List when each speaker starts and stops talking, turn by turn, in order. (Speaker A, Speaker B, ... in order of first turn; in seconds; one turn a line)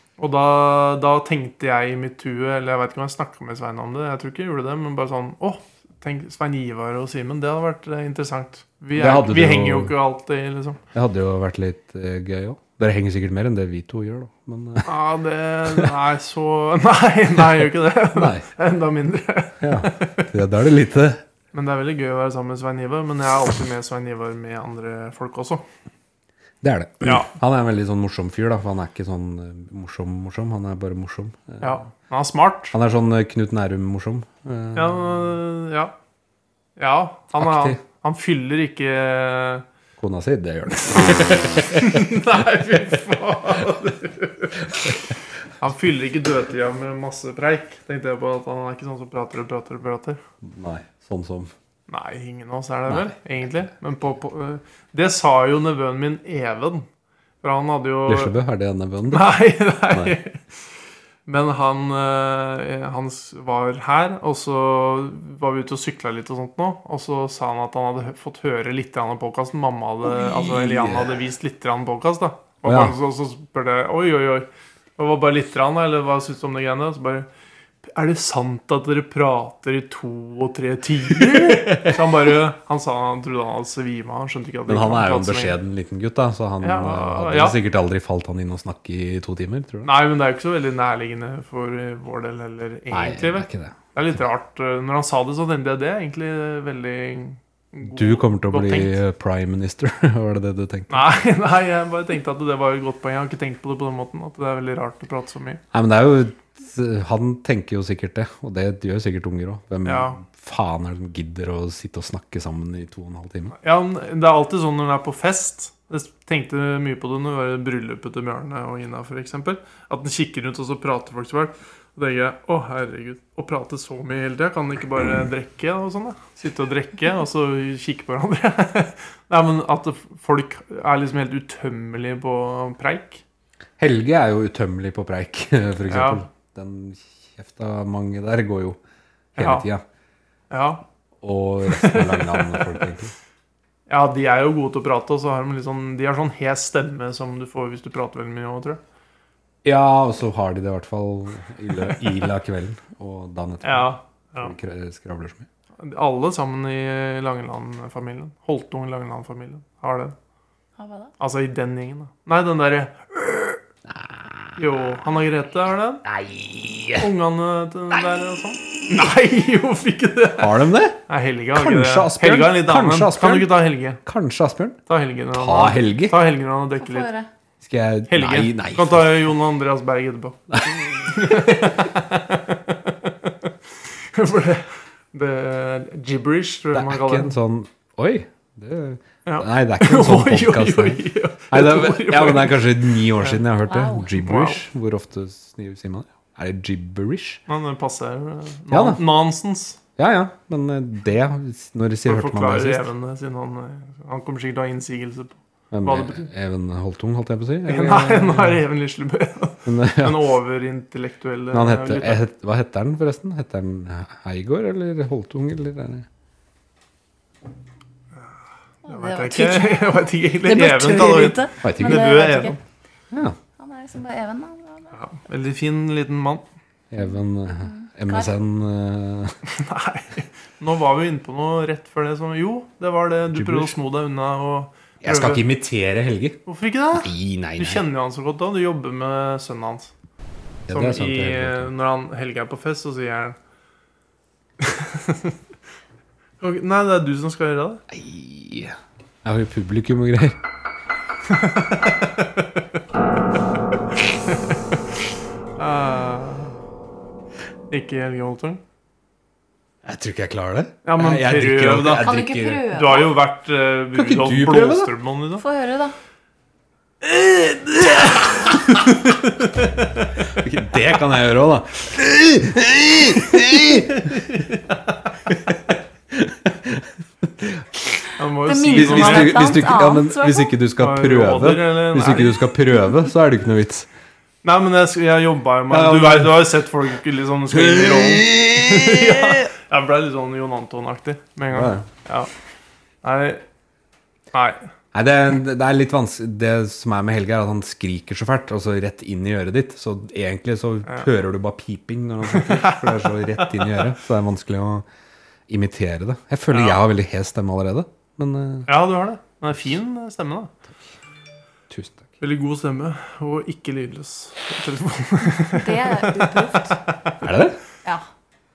Speaker A: 0.2-10.8
Speaker B: 8.9-9.9
Speaker B: 10.9-14.9
Speaker A: 14.8-20.3
Speaker B: 18.1-18.4
Speaker B: 19.6-21.2
Speaker A: 21.5-25.6
Speaker B: 26.6-31.8
Speaker A: 27.0-27.3
Speaker A: 31.6-32.8
Speaker B: 32.7-35.0
Speaker A: 34.7-35.9
Speaker A: 36.8-39.6
Speaker B: 37.4-37.8
Speaker B: 40.0-42.1
Speaker A: 41.6-45.0
Speaker A: 45.6-50.2
Speaker B: 50.4-51.5
Speaker A: 51.9-56.9
Speaker B: 52.9-53.1
Speaker A: 57.4-58.3
Speaker B: 58.1-59.4
Speaker A: 59.1-60.4
Speaker B: 59.9-60.1
Speaker A: 61.2-77.3
Speaker B: 70.0-71.2
Speaker B: 72.6-72.9
Speaker A: 77.8-85.6
Speaker B: 81.1-82.1
Speaker B: 84.7-89.9
Speaker A: 86.6-87.6
Speaker A: 89.8-99.0
Speaker B: 92.9-93.8
Speaker B: 97.9-101.0
Speaker A: 100.9-105.6
Speaker B: 105.7-113.5
Speaker A: 109.8-110.2
Speaker A: 113.5-133.2
Speaker B: 133.8-138.8
Speaker A: 135.9-136.2
Speaker B: 139.3-139.8
Speaker A: 139.4-139.7
Speaker A: 140.5-140.8
Speaker B: 141.2-143.1
Speaker A: 141.7-142.8
Speaker A: 143.9-148.8
Speaker B: 149.6-155.5
Speaker A: 153.6-154.5
Speaker A: 155.8-160.1
Speaker C: 160.8-161.1
Speaker A: 161.2-163.6
Speaker B: 163.9-164.6
Speaker A: 164.6-166.0
Speaker B: 166.0-167.1
Speaker A: 167.0-174.0
Speaker B: 170.4-171.0
Speaker B: 171.5-174.8
Speaker A: 174.9-177.1
Speaker B: 175.3-176.2
Speaker C: 176.8-177.3
Speaker B: 177.6-179.1
Speaker A: 178.1-183.5
Speaker B: 180.5-181.4
Speaker A: 184.1-187.3
Speaker B: 186.7-197.4
Speaker A: 189.2-193.4
Speaker C: 193.7-194.1
Speaker A: 194.2-194.6
Speaker A: 197.5-199.8
Speaker B: 198.7-199.0
Speaker B: 200.0-202.9
Speaker A: 202.1-206.3
Speaker B: 205.7-208.6
Speaker A: 207.7-212.2
Speaker B: 209.7-210.3
Speaker B: 211.5-216.1
Speaker A: 218.8-222.6
Speaker C: 218.9-222.6
Speaker B: 221.6-222.2
Speaker B: 223.1-223.4
Speaker C: 223.6-224.9
Speaker A: 224.9-226.4
Speaker B: 226.9-229.3
Speaker C: 227.0-228.3
Speaker A: 229.5-235.4
Speaker B: 233.3-233.7
Speaker B: 235.0-236.4
Speaker A: 236.4-239.9
Speaker B: 236.9-237.8
Speaker B: 240.7-241.7
Speaker A: 240.7-243.4
Speaker A: 244.6-245.4
Speaker A: 246.4-247.8
Speaker B: 247.9-250.4
Speaker A: 251.3-252.6
Speaker A: 254.1-254.8
Speaker A: 255.6-256.6
Speaker A: 257.7-258.6
Speaker B: 259.8-262.7
Speaker A: 260.8-262.2
Speaker C: 261.8-263.1
Speaker A: 262.7-265.4
Speaker B: 263.9-264.9
Speaker C: 265.4-265.9
Speaker A: 267.0-270.2
Speaker B: 268.0-268.8
Speaker B: 270.3-274.2
Speaker A: 274.1-274.9
Speaker B: 275.3-278.0
Speaker A: 278.2-279.5
Speaker C: 278.4-280.5
Speaker B: 278.7-283.9
Speaker A: 280.8-282.4
Speaker A: 284.4-292.3
Speaker B: 285.7-286.5
Speaker B: 287.5-289.5
Speaker B: 291.5-291.9
Speaker A: 293.0-293.4
Speaker A: 294.3-294.6
Speaker B: 294.9-304.8
Speaker A: 302.3-303.9
Speaker B: 305.5-308.7
Speaker A: 306.5-306.8
Speaker A: 308.7-310.5
Speaker B: 311.7-312.0
Speaker A: 312.2-317.2
Speaker C: 315.5-316.8
Speaker B: 317.2-317.6